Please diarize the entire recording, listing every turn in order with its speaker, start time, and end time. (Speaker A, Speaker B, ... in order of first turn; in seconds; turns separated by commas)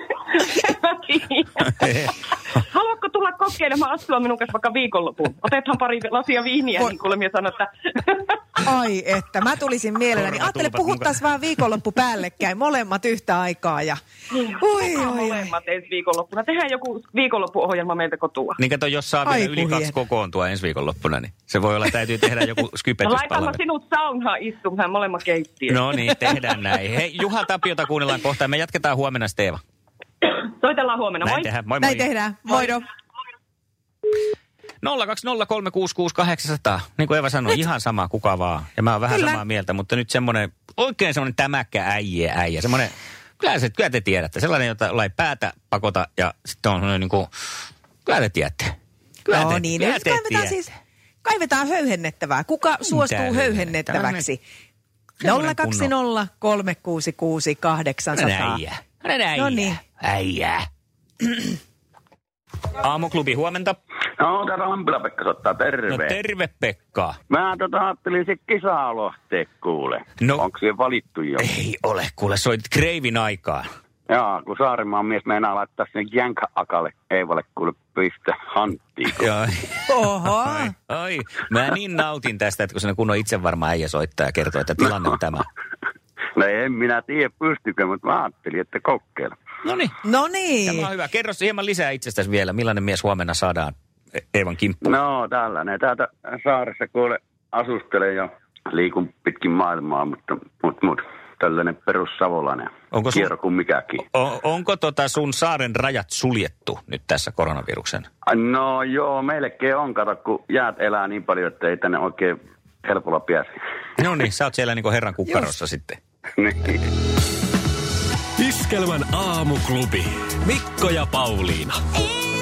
Speaker A: 0.2-8.4, Speaker B: 1.8-2.1, Speaker C: 8.6-14.0, Speaker B: 10.2-11.2, Speaker A: 14.3-18.6, Speaker C: 14.6-15.5, Speaker B: 18.6-23.6, Speaker C: 19.2-19.9, Speaker A: 23.0-25.9, Speaker B: 25.7-29.6, Speaker A: 30.2-31.5, Speaker B: 31.2-32.1, Speaker C: 31.8-32.8, Speaker B: 34.8-47.3, Speaker C: 39.1-39.4, Speaker B: 48.1-48.7, Speaker B: 49.3-50.6, Speaker C: 49.3-50.7, Speaker C: 51.2-54.4, Speaker B: 52.9-54.3, Speaker B: 55.2-55.9, Speaker C: 55.2-58.6, Speaker B: 58.1-60.7, Speaker C: 59.3-59.8, Speaker B: 62.8-63.8, Speaker D: 64.2-66.2, Speaker B: 65.9-67.2, Speaker D: 67.3-71.5, Speaker B: 70.2-70.5, Speaker B: 71.4-73.7, Speaker D: 74.1-79.2, Speaker B: 79.1-85.5, Speaker C: 79.9-80.7, Speaker D: 86.4-89.3, Speaker B: 89.7-90.0, Speaker C: 90.0-90.9, Speaker B: 90.7-93.7, Speaker B: 94.3-94.9, Speaker D: 94.8-104.0, Speaker B: 102.9-103.3, Speaker B: 104.0-108.1, Speaker D: 108.3-113.5, Speaker B: 114.0-116.0, Speaker D: 116.4-116.8, Speaker E: 118.4-121.8